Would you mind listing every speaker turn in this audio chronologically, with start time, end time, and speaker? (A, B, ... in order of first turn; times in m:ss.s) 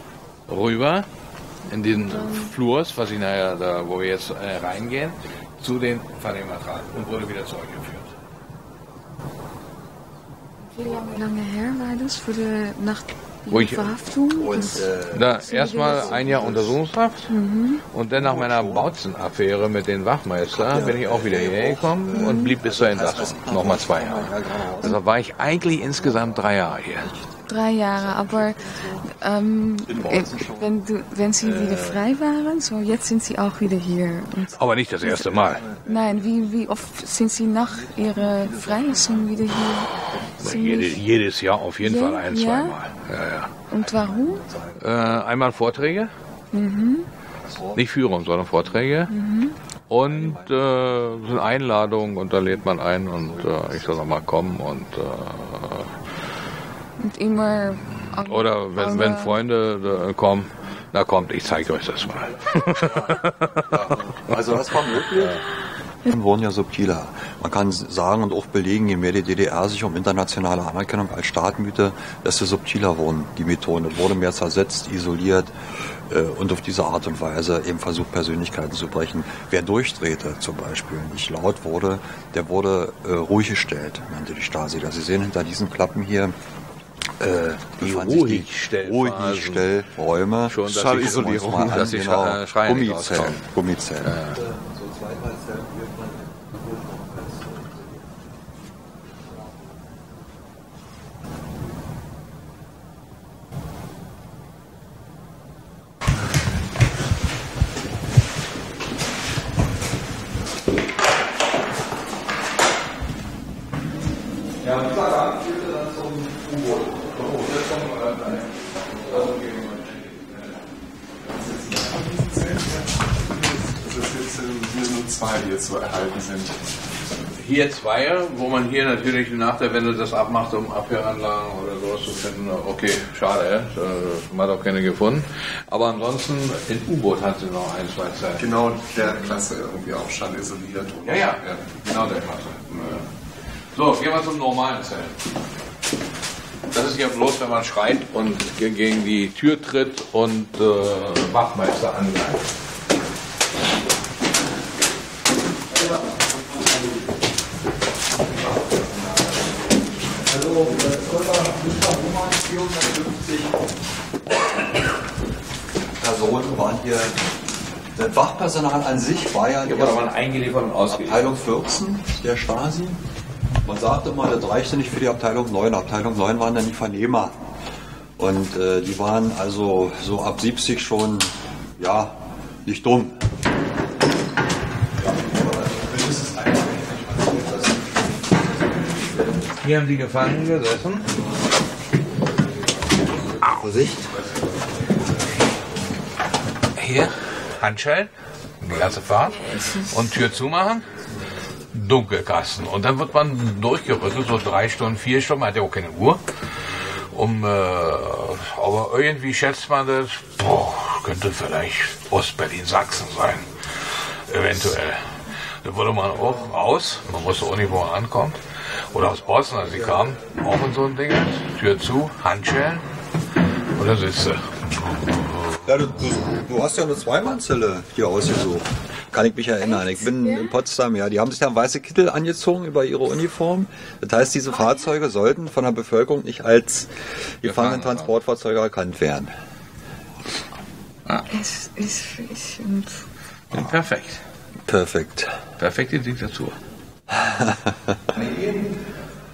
0:00.5-0:01.1 A
0:01.7-0:08.1 A
0:10.7-0:14.9 B
0:13.5-0:13.9 A
0:14.3-0:16.8 C
0:15.1-0:17.3 A
0:15.4-0:16.2 B
0:17.3-0:17.8 B
0:17.9-0:27.1 A
0:18.2-0:18.9 C
0:20.5-0:25.0 C
0:22.1-0:22.5 B
0:26.0-0:26.5 C
0:27.0-0:29.1 C
0:27.5-0:41.0 B
0:29.8-0:30.8 C
0:31.4-0:32.0 C
0:34.5-0:35.6 A
0:35.0-0:36.5 C
0:37.6-0:40.4 C
0:40.4-0:43.6 A
0:41.8-0:42.8 B
0:43.7-0:44.4 B
0:43.7-0:45.2 C
0:44.8-0:46.1 A
0:46.5-0:47.1 B
0:47.4-0:47.8 C
0:47.7-0:49.1 A
0:49.1-0:49.6 B
0:49.9-0:55.9 A
0:50.0-0:50.7 C
0:52.3-0:54.2 C
0:57.0-0:59.4 B
0:58.1-1:03.8 A
1:02.6-1:02.9 C
1:03.7-1:05.4 C
1:05.1-1:05.4 A
1:06.0-1:15.5 C
1:16.1-1:26.3 C
1:27.2-1:38.1 C
1:27.8-1:29.7 A
1:30.5-1:33.5 A
1:30.6-1:31.8 D
1:34.0-1:34.4 A
1:39.3-1:39.7 C
1:54.6-1:57.2 C
1:57.1-2:00.5 A
1:59.0-1:59.5 C
2:01.2-2:06.7 D
2:07.4-2:18.6 A
2:18.4-2:21.6 D
2:21.0-2:23.1 A
2:23.7-2:25.2 A
2:26.7-2:32.5 A
2:35.7-2:37.1 C
2:38.3-2:39.5 C
2:40.2-2:43.7 C
2:46.0-2:47.2 C
2:47.9-2:50.0 C
2:49.6-2:51.3 A
2:50.9-2:53.0 C
2:53.6-2:57.4 C
2:58.2-3:03.2 C
3:04.9-3:08.2 C
3:09.6-3:11.1 A
3:13.4-3:13.9 A
3:13.5-3:14.4 C
3:16.7-3:20.9 A
3:21.7-3:26.2 A
3:27.0-3:42.9 A
3:43.7-3:45.6 A
3:45.6-3:59.3 C
3:49.8-3:50.4 B
3:57.4-3:58.1 A
4:01.3-4:03.0 B
4:03.5-4:04.2 A
4:04.6-4:05.4 C
4:05.6-4:06.6 A
4:07.1-4:08.7 C